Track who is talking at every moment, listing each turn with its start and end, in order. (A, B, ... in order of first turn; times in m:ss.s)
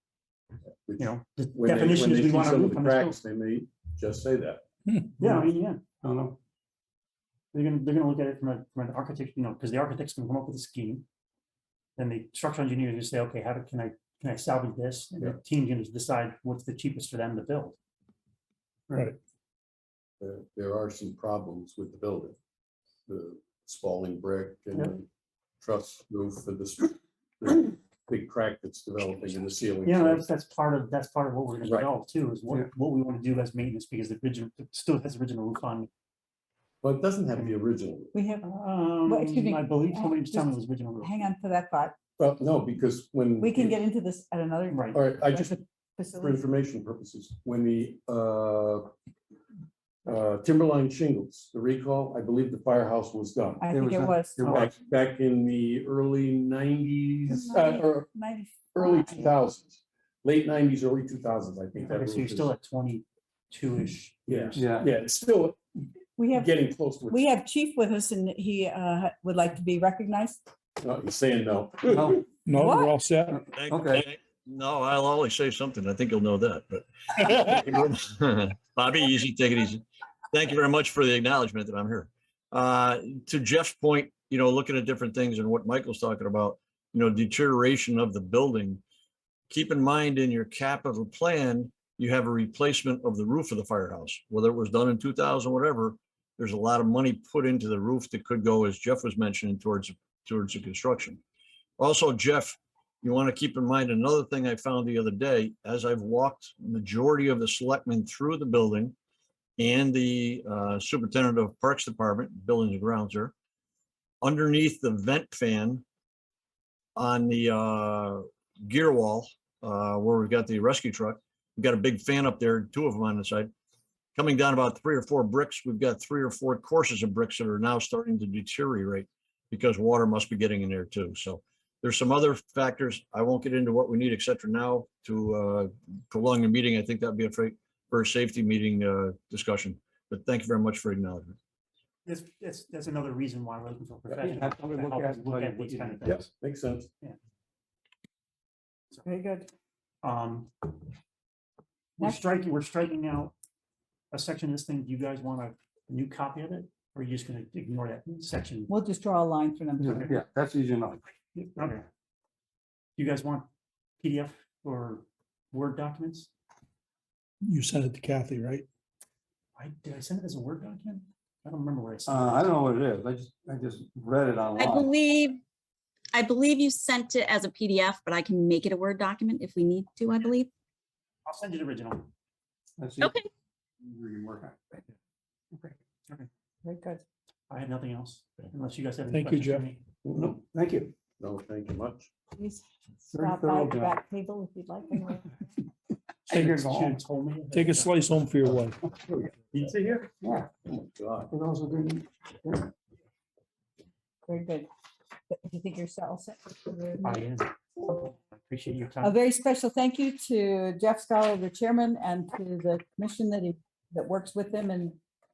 0:00.8-0:04.6 A
0:01.0-0:03.2 B
0:05.2-0:05.8 B
0:05.2-0:05.5 C
0:06.0-0:06.4 C
0:07.5-0:11.0 B
0:12.0-0:17.8 B
0:18.9-0:19.1 B
0:20.2-0:22.4 A
0:23.1-0:25.1 A
0:25.6-0:30.2 A
0:29.8-0:35.9 B
0:36.8-0:38.1 A
0:38.1-0:38.4 D
0:38.4-0:41.2 B
0:39.0-0:41.9 D
0:42.2-0:43.8 A
0:43.4-0:46.4 D
0:44.7-0:45.0 B
0:44.9-0:45.6 A
0:46.1-0:48.9 A
0:50.0-0:53.6 A
0:53.6-0:54.4 D
0:53.7-0:54.7 C
0:54.4-0:54.7 B
0:54.5-0:58.1 A
0:57.3-0:59.3 D
0:58.7-1:02.5 A
1:01.7-1:04.6 B
1:04.3-1:05.6 A
1:04.5-1:04.9 C
1:06.2-1:06.5 D
1:06.3-1:07.2 A
1:07.1-1:10.4 D
1:10.8-1:12.2 A
1:11.9-1:12.2 C
1:12.4-1:13.4 E
1:12.6-1:12.9 D
1:13.3-1:14.0 C
1:13.5-1:28.8 F
1:29.5-1:41.2 F
1:41.8-1:48.9 F
1:49.6-1:53.3 F
1:54.2-1:55.8 F
1:57.0-2:03.5 F
2:04.2-2:21.4 F
2:22.0-2:26.3 B
2:24.1-2:26.2 C
2:26.0-2:26.9 A
2:29.0-2:29.5 D
2:30.0-2:30.7 B
2:32.0-2:33.3 B
2:32.0-2:32.3 D
2:34.1-2:38.7 B
2:38.7-2:40.1 D
2:39.8-2:41.0 C
2:39.9-2:40.1 B
2:41.4-2:41.8 B
2:43.0-2:43.5 B
2:44.0-2:46.3 B
2:47.4-2:48.6 E
2:49.6-2:52.5 B
2:52.1-2:54.9 C
2:54.6-2:55.4 G
2:56.1-3:00.5 G
3:01.2-3:02.1 B
3:02.8-3:03.2 C
3:03.0-3:03.3 G
3:03.8-3:04.6 C
3:06.6-3:07.0 D
3:07.5-3:09.8 B
3:09.1-3:09.6 E
3:10.0-3:10.4 A
3:10.1-3:10.9 C
3:11.2-3:12.1 A
3:12.4-3:15.4 D
3:13.1-3:14.0 C
3:16.3-3:18.1 B
3:16.3-3:16.9 E
3:16.4-3:17.0 C
3:17.5-3:18.8 E
3:18.9-3:20.1 A
3:20.2-3:20.5 C
3:20.7-3:21.3 A
3:21.3-3:22.7 C
3:24.3-3:24.7 D
3:25.3-3:27.2 D
3:27.0-3:29.2 B
3:29.0-3:35.0 D